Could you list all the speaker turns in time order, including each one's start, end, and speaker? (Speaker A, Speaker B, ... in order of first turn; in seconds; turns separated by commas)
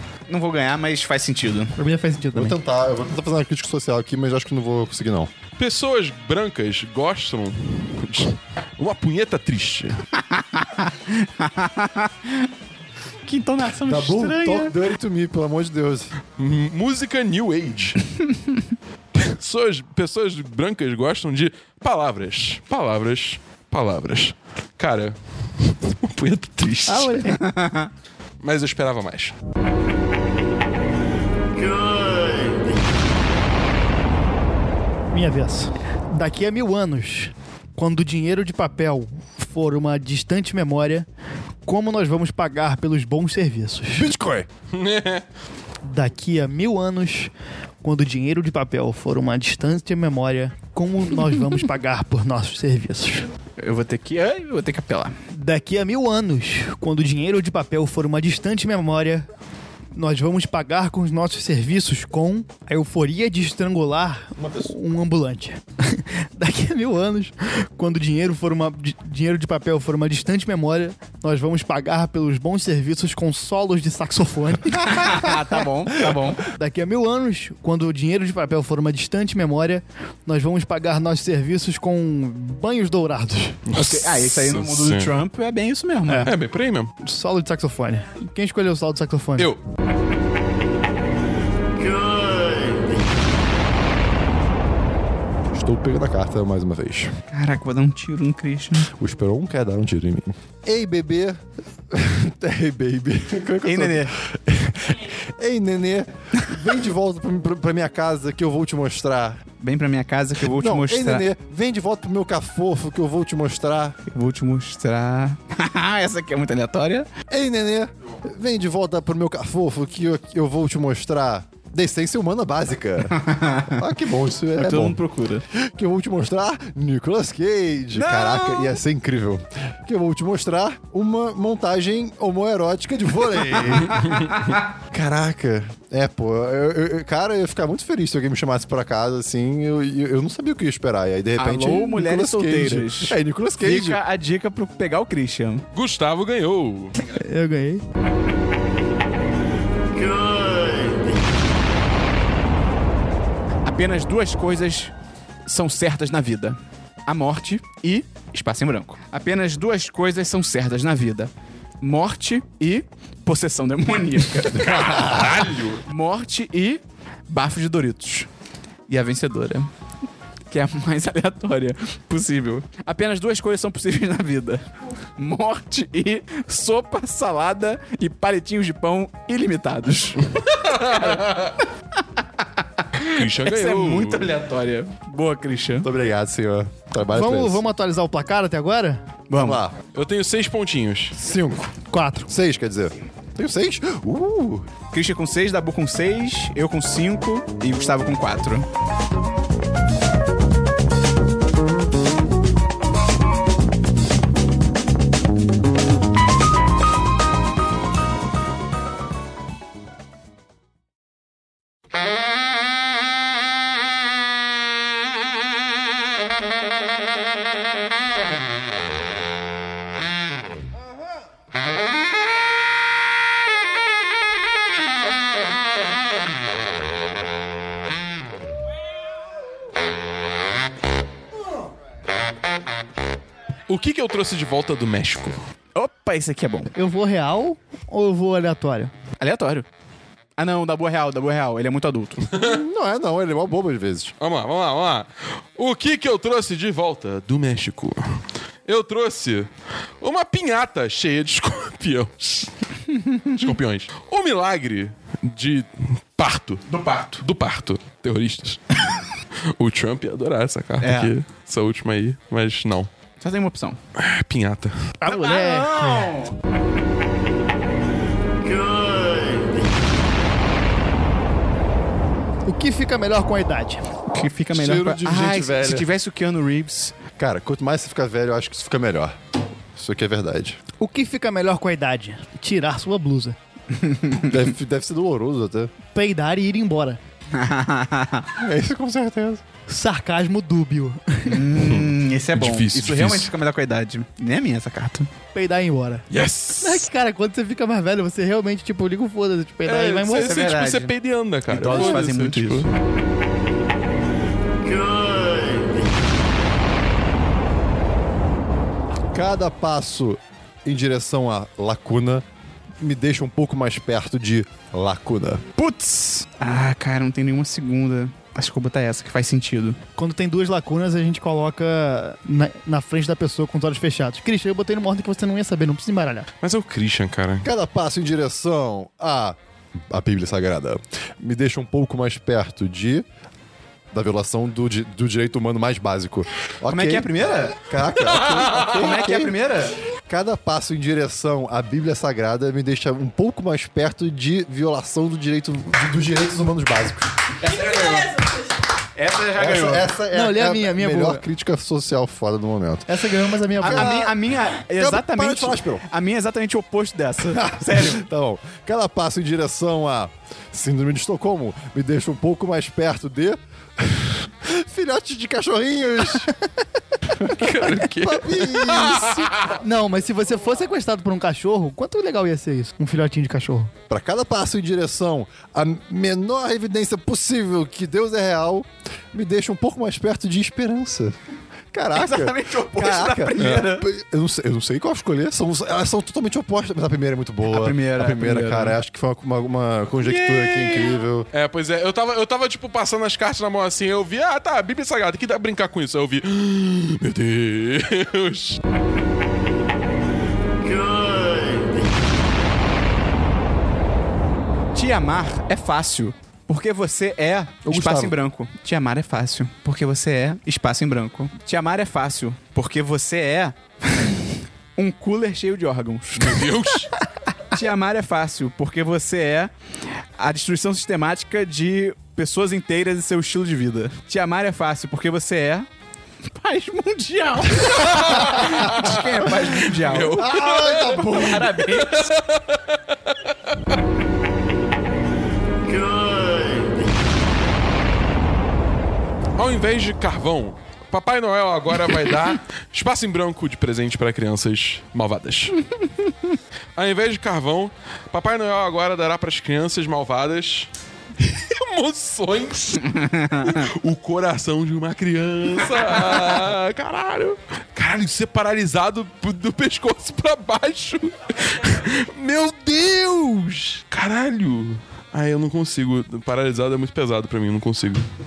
Speaker A: 0.3-1.8, Speaker B: 1.8-2.6, Speaker C: 2.3-5.3, Speaker D: 5.6-10.0, Speaker A: 10.3-12.5, Speaker A: 13.2-14.7, Speaker C: 13.8-16.1, Speaker D: 16.4-18.0, Speaker D: 19.1-27.3, Speaker B: 26.9-27.4, Speaker A: 27.3-27.9, Speaker D: 28.4-29.3, Speaker B: 35.1-41.0, Speaker B: 41.6-44.1, Speaker C: 43.9-44.5, Speaker D: 44.7-45.2, Speaker B: 45.8-47.3, Speaker B: 47.8-53.3, Speaker A: 53.6-55.2, Speaker B: 55.3-59.3, Speaker B: 59.9-75.3, Speaker A: 74.8-76.4, Speaker B: 76.5-83.6, Speaker D: 83.7-85.1, Speaker A: 83.7-86.3, Speaker B: 86.1-86.3, Speaker D: 86.2-86.9, Speaker B: 87.0-89.5, Speaker C: 95.5-97.2, Speaker A: 97.3-98.9, Speaker C: 98.9-109.4, Speaker A: 103.6-104.1, Speaker A: 109.6-111.3, Speaker C: 110.4-114.0, Speaker A: 114.1-117.1, Speaker C: 117.3-125.0, Speaker A: 123.1-123.8, Speaker A: 124.5-125.4, Speaker C: 125.5-134.2, Speaker A: 127.9-128.8, Speaker D: 133.8-134.5, Speaker C: 134.9-144.0, Speaker A: 141.4-145.7, Speaker D: 145.7-146.9, Speaker B: 147.1-147.8, Speaker A: 153.6-154.9, Speaker A: 155.4-168.3, Speaker D: 164.5-165.8, Speaker C: 164.7-165.3, Speaker A: 168.9-169.7, Speaker A: 170.5-174.6, Speaker A: 175.2-181.5, Speaker D: 180.4-181.5, Speaker A: 182.4-185.9, Speaker D: 183.0-184.3, Speaker C: 185.8-187.6, Speaker B: 187.1-189.0, Speaker A: 189.3-189.6, Speaker C: 189.3-189.7, Speaker D: 189.9-191.2, Speaker C: 191.2-191.7, Speaker B: 191.9-192.3, Speaker C: 192.3-194.7, Speaker A: 194.9-198.7, Speaker D: 233.7-235.4, Speaker A: 235.7-236.7, Speaker B: 236.7-238.9, Speaker A: 239.2-239.7, Speaker A: 240.4-242.2, Speaker D: 242.3-242.6, Speaker C: 242.4-244.1, Speaker D: 244.2-252.5, Speaker D: 253.3-256.6, Speaker A: 256.7-257.2, Speaker D: 257.2-258.8, Speaker D: 259.5-262.9, Speaker A: 260.8-261.1, Speaker A: 263.2-263.8, Speaker D: 263.9-264.9, Speaker B: 265.0-266.1, Speaker A: 265.1-266.3, Speaker B: 272.4-273.8, Speaker A: 274.1-276.9, Speaker C: 274.5-275.9, Speaker C: 277.2-279.2, Speaker C: 279.7-280.6, Speaker B: 280.8-283.4, Speaker A: 283.7-284.3, Speaker C: 284.2-285.7, Speaker B: 285.9-287.0, Speaker A: 287.3-288.3, Speaker C: 288.4-289.4, Speaker B: 289.7-291.4, Speaker A: 291.3-295.1, Speaker D: 291.5-293.3, Speaker B: 295.3-296.1, Speaker D: 296.1-296.9, Speaker B: 296.6-300.4, Speaker D: 299.6-302.7, Speaker A: 300.1-300.9, Speaker A: 301.5-302.7, Speaker C: 309.1-312.2, Speaker C: 312.8-315.4, Speaker A: 315.6-319.8, Speaker B: 320.0-326.3, Speaker D: 326.4-327.5, Speaker C: 327.4-329.4, Speaker C: 329.9-333.0, Speaker C: 333.9-339.3, Speaker A: 336.7-337.6, Speaker A: 338.5-339.8, Speaker C: 340.1-347.1, Speaker A: 347.4-349.9, Speaker C: 349.4-352.9, Speaker B: 350.1-351.2, Speaker B: 352.9-354.0, Speaker C: 353.6-354.1, Speaker A: 353.6-358.0, Speaker C: 354.8-355.8, Speaker C: 357.3-366.3, Speaker D: 367.2-369.6, Speaker C: 367.3-369.3, Speaker B: 369.5-373.7, Speaker C: 373.9-381.1, Speaker C: 381.7-391.3, Speaker A: 381.9-383.9, Speaker A: 387.4-388.8, Speaker A: 390.0-391.0, Speaker D: 391.3-398.6, Speaker A: 404.7-416.5, Speaker C: 407.6-408.1, Speaker D: 416.1-416.9, Speaker A: 417.5-419.5, Speaker A: 420.2-425.7, Speaker A: 426.3-432.1, Speaker D: 427.5-433.6, Speaker C: 430.1-431.5, Speaker D: 439.3-445.6, Speaker D: 446.8-468.1, Speaker A: 452.9-453.5